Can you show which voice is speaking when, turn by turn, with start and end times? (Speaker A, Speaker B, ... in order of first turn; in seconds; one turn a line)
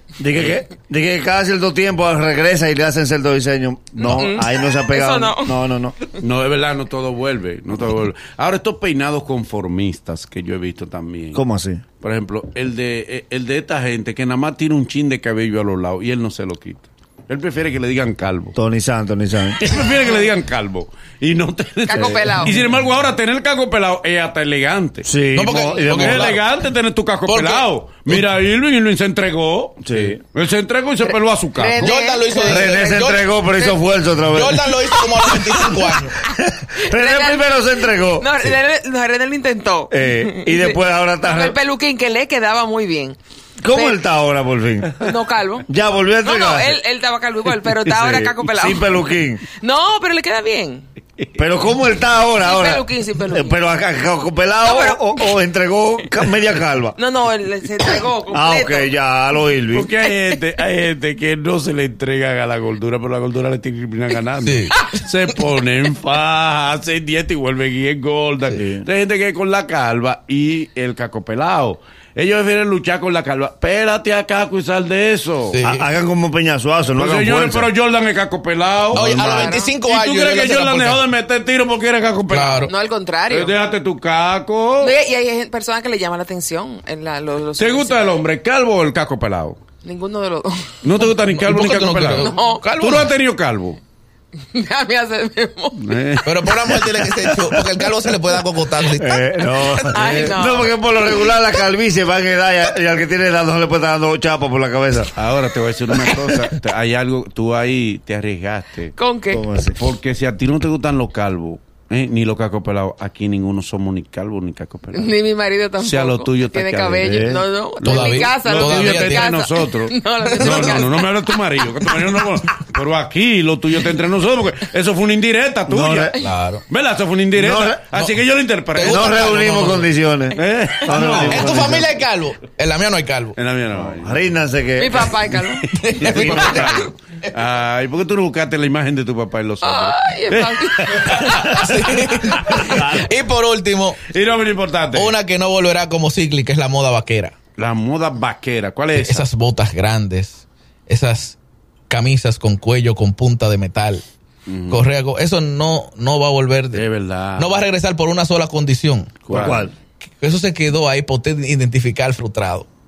Speaker A: 0.2-5.9
Speaker B: 0.3-0.6
Speaker B: 4.0-4.2
Speaker C: 4.0-6.1
Speaker B: 6.2-11.4
Speaker A: 11.3-11.8
Speaker B: 12.0-18.6
Speaker A: 18.5-19.6
Speaker B: 19.6-31.9
Speaker C: 21.9-22.6
Speaker A: 25.0-26.4
Speaker D: 25.3-26.4
Speaker D: 27.2-28.2
Speaker A: 29.9-30.2
Speaker C: 31.6-32.7
Speaker D: 31.8-33.3
Speaker A: 32.4-34.7
Speaker C: 33.6-33.9
Speaker D: 34.3-36.2
Speaker C: 34.8-43.2
Speaker A: 36.5-38.6
Speaker A: 39.9-41.6
Speaker A: 43.6-45.0
Speaker C: 43.7-44.0
Speaker C: 45.0-45.7
Speaker A: 45.7-46.8
Speaker C: 46.2-48.9
Speaker A: 47.9-49.4
Speaker C: 49.6-50.9
Speaker A: 51.4-57.0
Speaker C: 52.4-53.6
Speaker C: 54.6-55.3
Speaker C: 57.0-58.9
Speaker A: 58.3-59.9
Speaker B: 59.7-75.6
Speaker D: 64.4-64.8
Speaker A: 68.5-68.8
Speaker D: 75.5-75.8
Speaker A: 75.6-77.7
Speaker B: 77.0-82.7
Speaker A: 78.9-79.2
Speaker D: 78.9-81.1
Speaker C: 79.1-79.7
Speaker D: 82.3-82.7
Speaker C: 82.7-83.5
Speaker B: 83.3-85.0
Speaker C: 84.8-88.0
Speaker B: 87.6-89.6
Speaker C: 89.8-90.8
Speaker B: 90.8-93.8
Speaker D: 91.3-93.1
Speaker C: 92.2-92.6
Speaker C: 94.5-95.9
Speaker B: 95.8-96.5
Speaker D: 96.2-99.2
Speaker A: 96.8-97.6
Speaker A: 99.0-105.1
Speaker C: 99.5-101.3
Speaker B: 105.2-108.9
Speaker A: 105.9-106.5
Speaker C: 109.0-109.4
Speaker A: 109.3-109.8
Speaker B: 109.7-115.1
Speaker C: 114.9-122.0
Speaker B: 115.8-129.8
Speaker A: 117.0-117.4
Speaker D: 117.8-119.3
Speaker D: 120.3-120.8
Speaker A: 125.7-126.1
Speaker D: 126.2-126.6
Speaker A: 127.3-127.8
Speaker D: 127.9-128.2
Speaker D: 128.7-129.9
Speaker A: 128.8-131.9
Speaker B: 130.3-131.8
Speaker D: 131.2-133.4
Speaker B: 133.3-134.4
Speaker A: 133.8-135.1
Speaker C: 134.8-135.7
Speaker D: 135.7-136.9
Speaker B: 135.8-143.0
Speaker C: 136.2-136.7
Speaker C: 139.6-141.8
Speaker D: 141.2-144.0
Speaker B: 144.1-145.2
Speaker D: 144.9-147.3
Speaker B: 147.6-149.3
Speaker D: 148.9-151.4
Speaker D: 151.9-154.1
Speaker B: 154.5-154.8
Speaker D: 154.7-156.8
Speaker B: 156.7-157.6
Speaker D: 157.4-159.2
Speaker A: 159.2-159.7
Speaker B: 159.3-159.7
Speaker D: 160.2-162.7